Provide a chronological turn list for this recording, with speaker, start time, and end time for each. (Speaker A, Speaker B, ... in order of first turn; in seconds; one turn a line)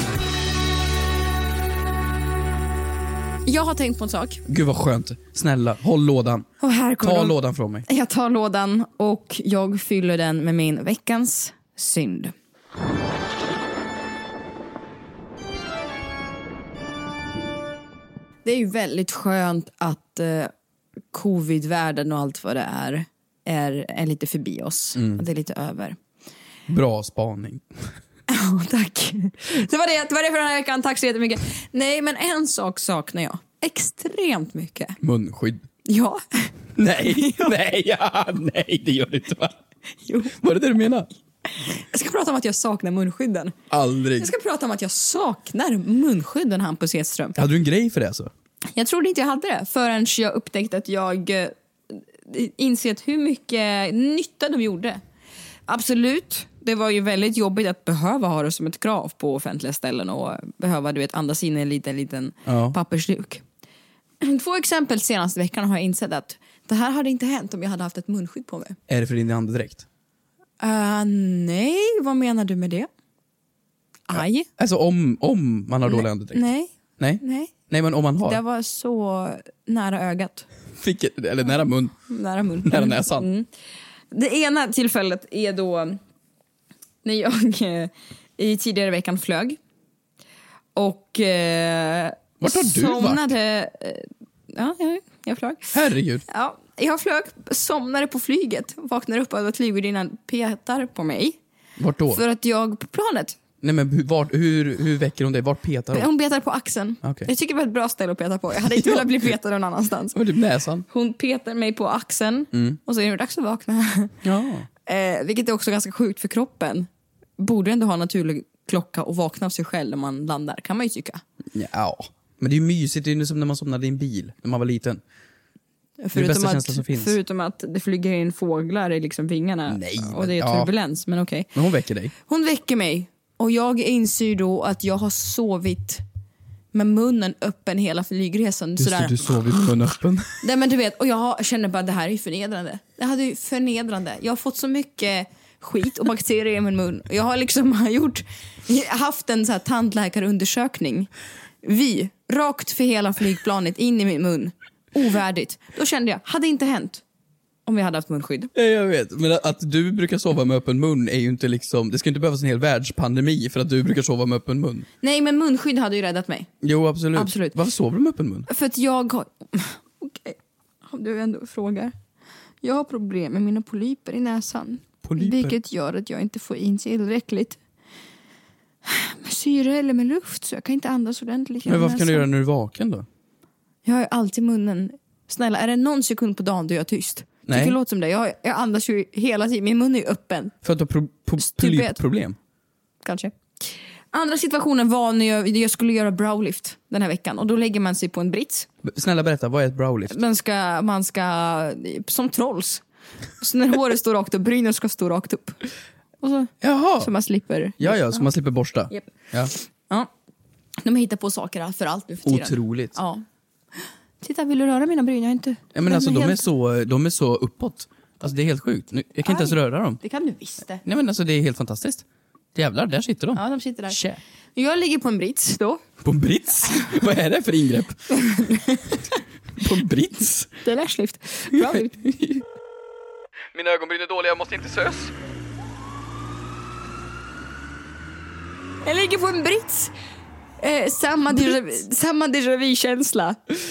Speaker A: 3.5-4.4
Speaker B: 4.5-6.5
Speaker A: 6.6-12.3
Speaker B: 7.0-7.9
Speaker A: 18.4-20.5
Speaker A: 21.1-26.0
Speaker B: 25.0-25.2
Speaker B: 26.7-27.6
Speaker A: 28.3-35.0
Speaker B: 35.0-35.6
Speaker A: 35.9-37.5
Speaker B: 36.8-39.6
Speaker A: 40.1-40.4
Speaker B: 40.4-41.1
Speaker A: 41.6-43.5
Speaker B: 43.7-44.3
Speaker A: 44.2-47.4
Speaker B: 47.4-48.3
Speaker A: 48.7-55.0
Speaker A: 55.7-63.4
Speaker B: 62.5-62.8
Speaker A: 64.2-68.8
Speaker B: 68.9-69.8
Speaker A: 70.6-72.9
Speaker A: 74.1-74.5
Speaker B: 74.1-76.4
Speaker A: 75.8-77.5
Speaker B: 77.0-78.4
Speaker A: 78.2-80.5
Speaker B: 80.8-82.0
Speaker A: 82.1-83.5
Speaker B: 82.6-83.3
Speaker A: 84.1-86.0
Speaker A: 87.0-89.6
Speaker A: 90.8-95.7
Speaker B: 92.4-93.3
Speaker B: 95.7-96.2
Speaker A: 96.3-101.4
Speaker B: 101.8-102.2
Speaker A: 102.1-103.4
Speaker B: 103.6-106.1
Speaker A: 105.9-110.2
Speaker B: 107.0-107.3
Speaker B: 108.6-109.3
Speaker B: 110.1-110.8
Speaker A: 110.9-114.2
Speaker B: 112.5-112.8
Speaker B: 114.2-114.7
Speaker A: 114.9-121.2
Speaker B: 121.5-125.0
Speaker A: 126.0-131.5
Speaker B: 126.1-127.2
Speaker B: 129.7-130.7
Speaker B: 131.6-132.1
Speaker A: 132.3-136.0
Speaker A: 136.7-139.4
Speaker B: 138.8-140.4
Speaker A: 140.4-151.1
Speaker A: 151.6-157.0
Speaker A: 157.7-158.5
Speaker B: 158.5-164.9
Speaker A: 165.0-166.5
Speaker B: 166.6-168.5
Speaker A: 167.2-167.6
Speaker A: 168.5-171.9
Speaker A: 172.6-177.6
Speaker B: 175.0-175.5
Speaker A: 178.8-182.3
Speaker B: 181.7-183.1
Speaker A: 183.8-190.6
Speaker B: 187.5-187.8
Speaker B: 190.6-192.4
Speaker A: 191.4-192.0
Speaker A: 193.0-198.7
Speaker B: 198.8-200.2
Speaker A: 200.1-202.8
Speaker A: 203.4-205.6
Speaker A: 206.2-208.3
Speaker B: 206.6-207.1
Speaker B: 207.8-209.5
Speaker A: 208.9-210.1
Speaker A: 210.8-213.2
Speaker B: 212.2-213.0
Speaker A: 214.2-216.4
Speaker B: 215.7-220.0
Speaker A: 219.3-220.8
Speaker B: 220.8-222.0
Speaker B: 222.6-224.2
Speaker A: 223.3-224.0
Speaker A: 224.6-225.8
Speaker B: 226.0-228.2
Speaker A: 228.1-229.0
Speaker B: 229.6-230.6
Speaker A: 230.6-231.9
Speaker B: 231.5-232.4
Speaker B: 233.5-235.1
Speaker A: 238.8-239.9
Speaker A: 240.6-243.4